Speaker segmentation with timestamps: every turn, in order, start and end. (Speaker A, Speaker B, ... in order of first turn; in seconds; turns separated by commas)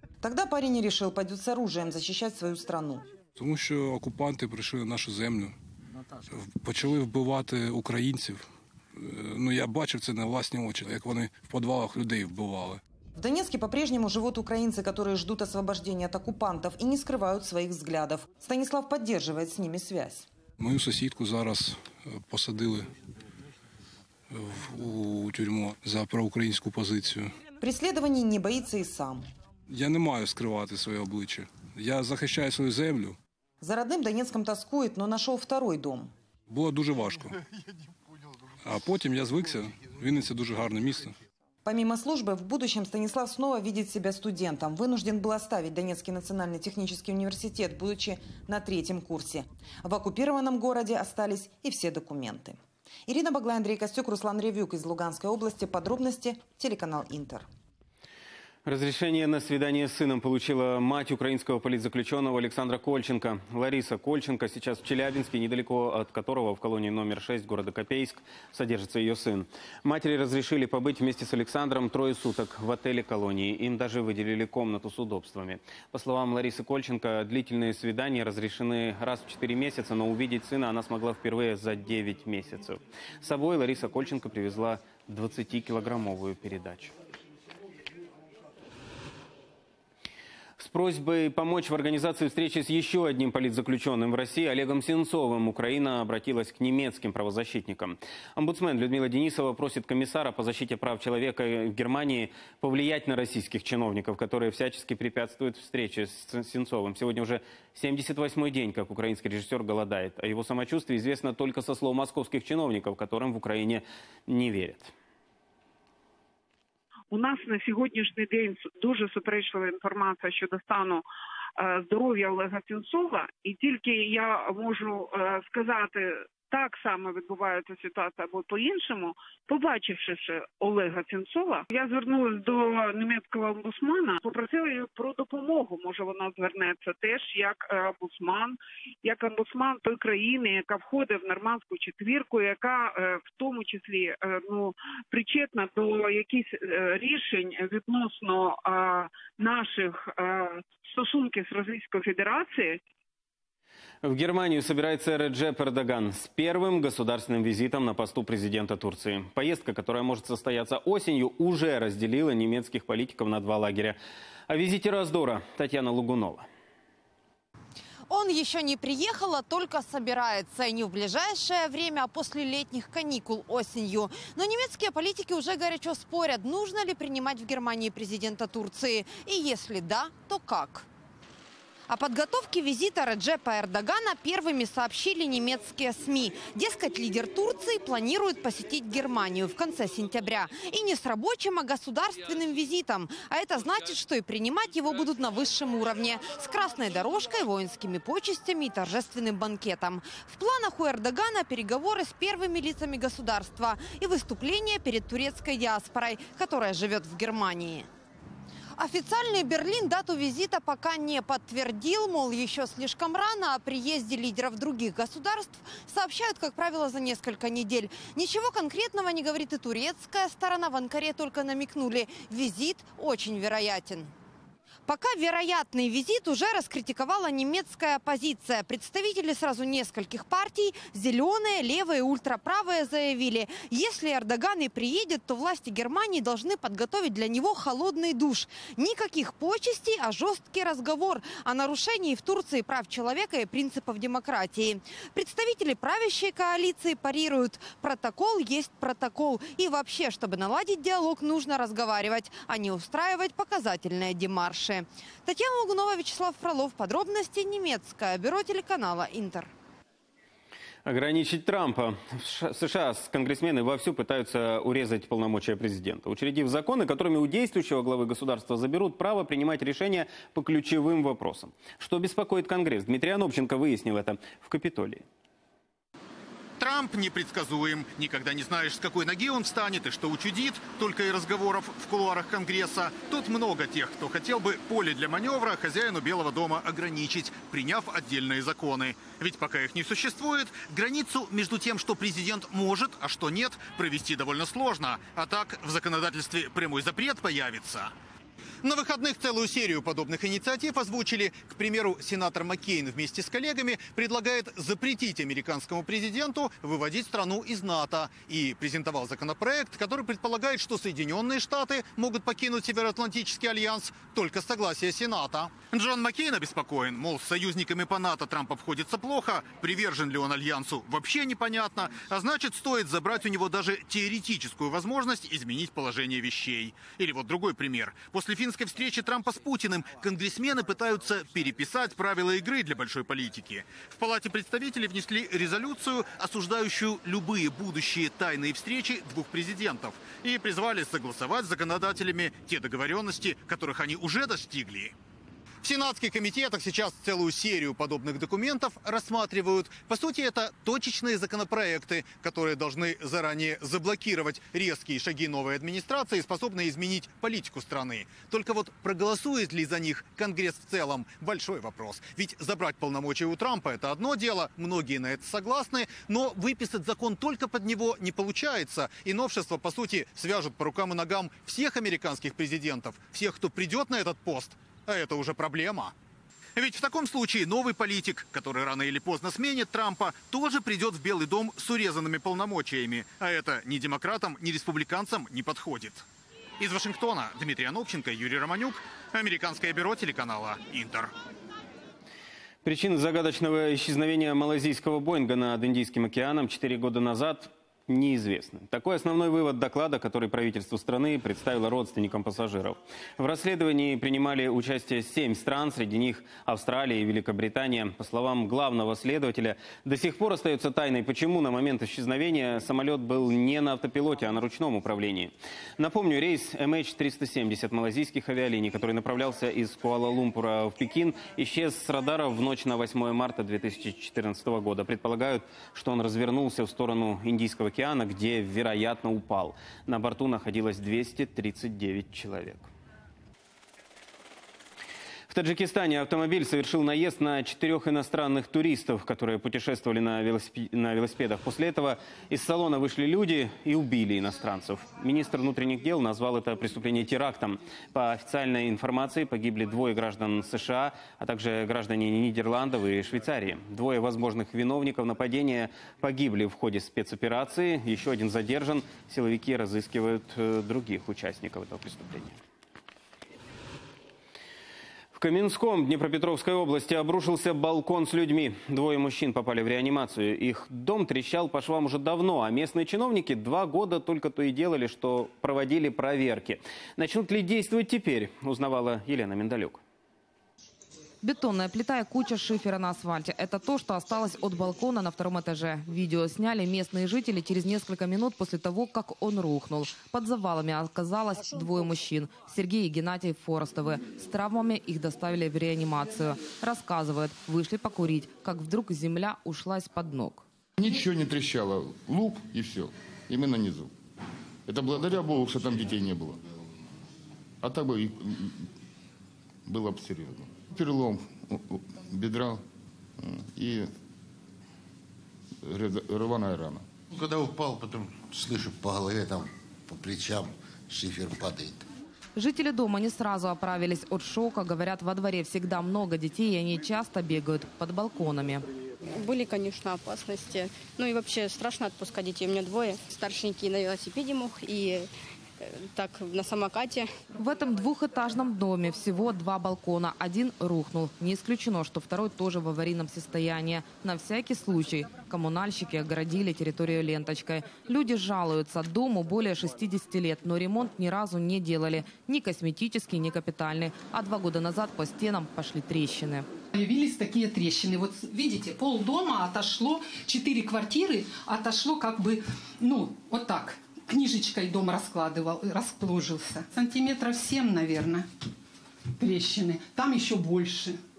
Speaker A: 0.2-3.1, Speaker B: 3.4-5.5, Speaker B: 6.3-12.8, Speaker A: 13.2-20.3, Speaker B: 20.6-22.9, Speaker B: 24.3-27.4, Speaker A: 27.6-29.3, Speaker B: 29.7-33.2, Speaker A: 33.6-36.1, Speaker B: 36.5-37.4, Speaker B: 38.6-41.2, Speaker A: 41.6-57.5, Speaker C: 58.7-86.9, Speaker C: 90.6-114.9, Speaker D: 117.1-121.0, Speaker D: 121.6-152.8, Speaker C: 154.0-164.0, Speaker C: 164.5-166.5, Speaker E: 168.1-180.9, Speaker E: 181.9-207.9, Speaker E: 208.8-224.1, Speaker E: 224.9-259.5, Speaker C: 260.9-275.0, Speaker F: 276.6-297.9, Speaker F: 298.6-344.9, Speaker F: 345.6-375.9, Speaker F: 376.6-386.1, Speaker F: 386.6-391.1, Speaker C: 392.6-432.7, Speaker C: 435.3-462.4, Speaker C: 465.1-479.8, Speaker G: 481.2-500.4, Speaker H: 500.8-503.9, Speaker H: 504.7-506.4, Speaker H: 507.6-508.7, Speaker H: 509.7-512.6, Speaker H: 513.2-513.9, Speaker H: 515.6-516.9, Speaker I: 517.1-521.8, Speaker G: 522.4-528.6, Speaker J: 529.1-535.1, Speaker J: 535.6-537.1, Speaker G: 537.4-556.5, Speaker K: 556.7-568.3, Speaker K: 569.2-571.0